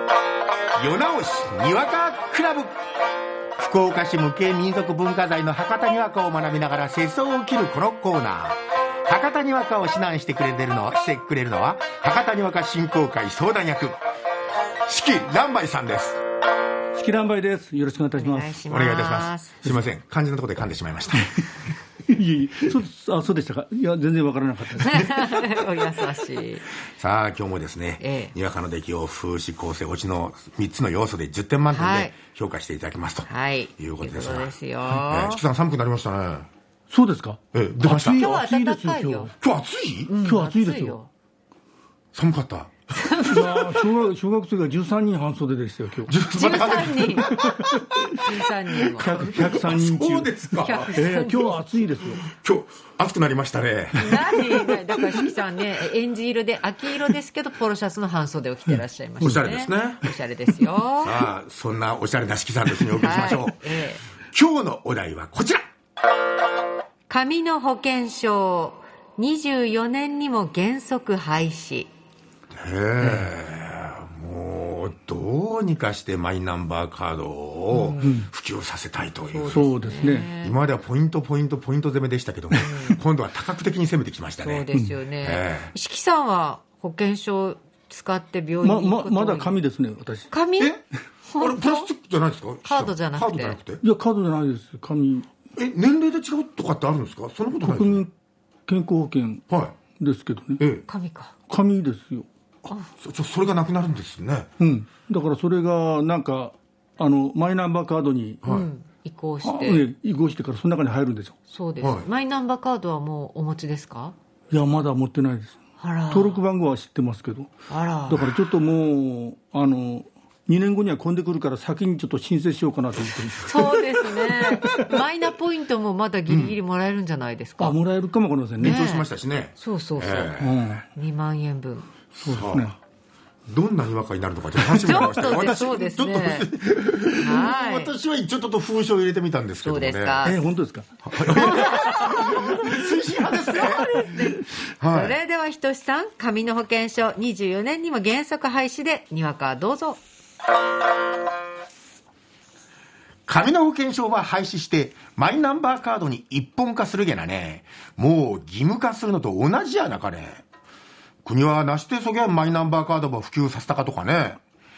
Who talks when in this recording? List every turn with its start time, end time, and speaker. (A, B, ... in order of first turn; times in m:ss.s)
0:00.8-0:02.7 A
0:03.6-0:14.0 A
0:14.8-0:16.2 A
0:16.9-0:18.5 B
0:18.2-0:19.6 C
0:18.7-0:21.4 A
0:22.1-0:25.2 B
0:24.8-0:26.7 C
0:25.0-0:25.4 A
0:27.0-0:36.5 A
0:28.0-0:28.3 C
0:31.7-0:32.1 C
0:33.3-0:35.4 C
0:36.9-0:39.3 B
0:37.5-0:38.3 A
0:38.1-0:39.3 C
0:39.4-0:40.1 A
0:40.1-0:41.1 C
0:40.2-0:41.0 B
0:42.1-0:43.2 A
0:42.9-0:43.7 C
0:43.3-0:46.1 B
0:46.0-0:47.8 A
0:46.3-0:47.4 C
0:47.3-0:47.9 B
0:48.1-0:49.2 C
0:48.8-0:50.4 B
0:48.8-0:50.9 A
0:50.6-0:51.6 C
0:50.9-0:52.2 B
0:52.2-0:54.8 A
0:54.0-1:01.2 C
0:59.2-1:00.0 A
1:01.0-1:03.6 A
1:03.0-1:04.0 C
1:04.3-1:05.6 A
1:07.1-1:11.9 C
1:12.5-1:24.7 A
1:13.0-1:13.3 B
1:17.7-1:18.2 C
1:18.0-1:18.3 B
1:19.2-1:20.6 C
1:19.5-1:20.3 B
1:22.6-1:22.9 C
1:22.7-1:23.0 B
1:24.4-1:29.6 C
1:25.2-1:25.7 A
1:28.6-1:30.3 B
1:30.3-1:31.9 C
1:31.4-1:33.8 A
1:32.6-1:33.6 C
1:33.8-1:35.3 B
1:35.6-1:38.0 A
1:37.6-1:38.1 B
1:38.7-1:39.4 B
1:39.5-1:39.8 A
1:40.0-1:40.6 B
1:40.6-1:40.8 A
1:40.9-1:41.3 C
1:41.5-1:42.2 B
1:43.0-1:44.5 A
1:44.6-1:48.4 B
1:48.4-1:49.8 C
1:49.4-1:51.4 B
1:51.5-1:54.2 C
1:51.8-1:52.1 A
1:54.5-1:55.6 B
1:55.8-1:56.4 C
1:56.1-1:57.5 B
1:57.7-1:58.3 C
1:58.1-2:04.9 B
2:03.4-2:07.8 C
2:06.3-2:06.6 A
2:07.6-2:08.8 B
2:08.6-2:10.4 C
2:08.6-2:10.6 A
2:10.4-2:10.8 B
2:10.9-2:11.9 C
2:12.1-2:12.7 A
2:12.2-2:12.7 B
2:13.5-2:20.3 A
2:14.6-2:15.7 B
2:14.8-2:16.5 C
2:17.2-2:18.0 C
2:19.6-2:20.4 C
2:20.2-2:22.3 B
2:21.0-2:24.0 A
2:21.3-2:22.7 C
2:23.5-2:30.0 C
2:24.8-2:25.2 A
2:33.3-2:40.4 A
2:41.2-2:44.4 A